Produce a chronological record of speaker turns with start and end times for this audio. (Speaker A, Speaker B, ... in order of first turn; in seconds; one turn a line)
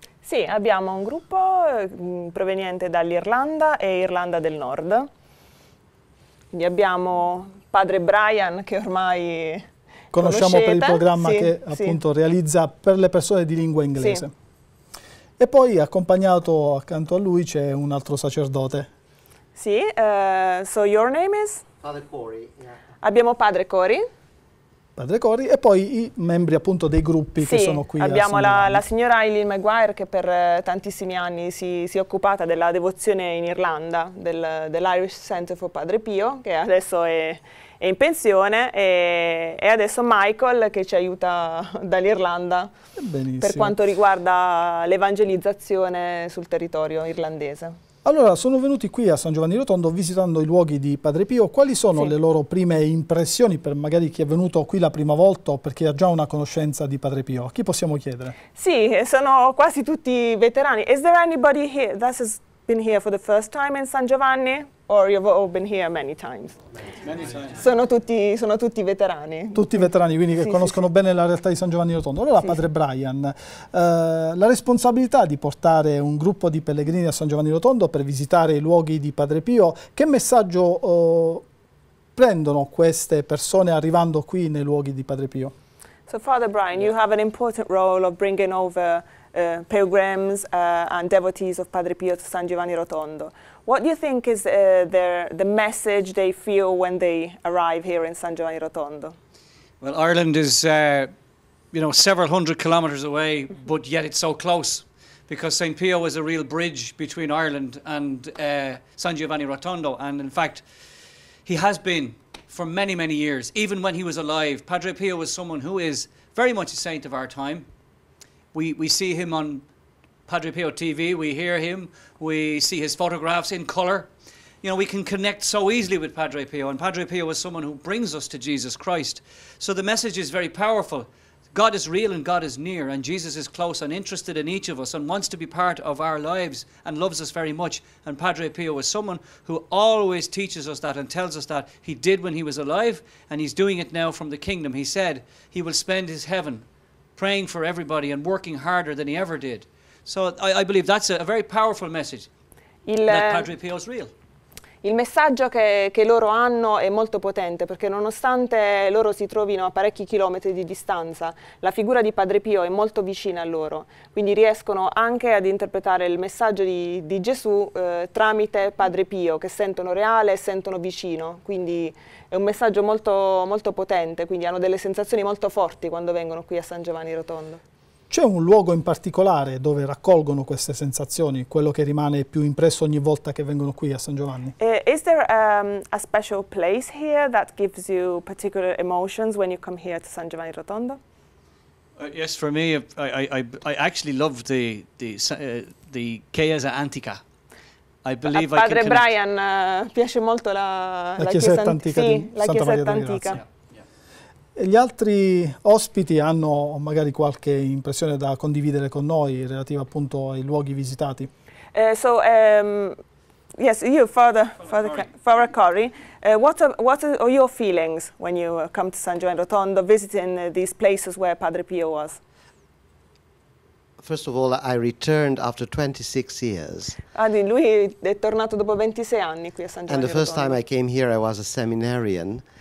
Speaker A: 0.2-5.0
Speaker A: 6.5-9.6
Speaker B: 10.1-14.3
Speaker A: 10.2-12.0
Speaker A: 14.0-14.2
Speaker B: 15.4-18.9
Speaker A: 19.6-21.6
Speaker C: 21.8-22.8
Speaker A: 23.0-24.0
Speaker B: 24.9-28.8
Speaker A: 27.4-42.7
Speaker B: 43.0-43.7
Speaker A: 43.4-47.8
Speaker B: 48.0-58.3
Speaker A: 58.5-66.6
Speaker D: 67.0-67.6
Speaker A: 67.5-70.8
Speaker B: 69.5-81.5
Speaker B: 82.1-85.5
Speaker A: 86.1-99.1
Speaker D: 99.8-101.1
Speaker D: 101.7-110.7
Speaker D: 111.4-117.7
Speaker D: 118.5-119.6
Speaker D: 120.3-124.1
Speaker D: 124.6-152.3
Speaker A: 152.8-153.6
Speaker D: 153.1-154.1
Speaker A: 154.8-177.6
Speaker B: 178.1-184.5
Speaker A: 184.6-191.0
Speaker D: 192.0-197.2
Speaker D: 198.0-199.1
Speaker A: 198.3-203.4
Speaker B: 201.2-203.4
Speaker D: 203.3-203.8
Speaker B: 204.6-211.3
Speaker A: 211.7-212.9
Speaker A: 213.6-222.2
Speaker C: 224.0-227.0
Speaker A: 227.1-230.6
Speaker C: 229.9-232.4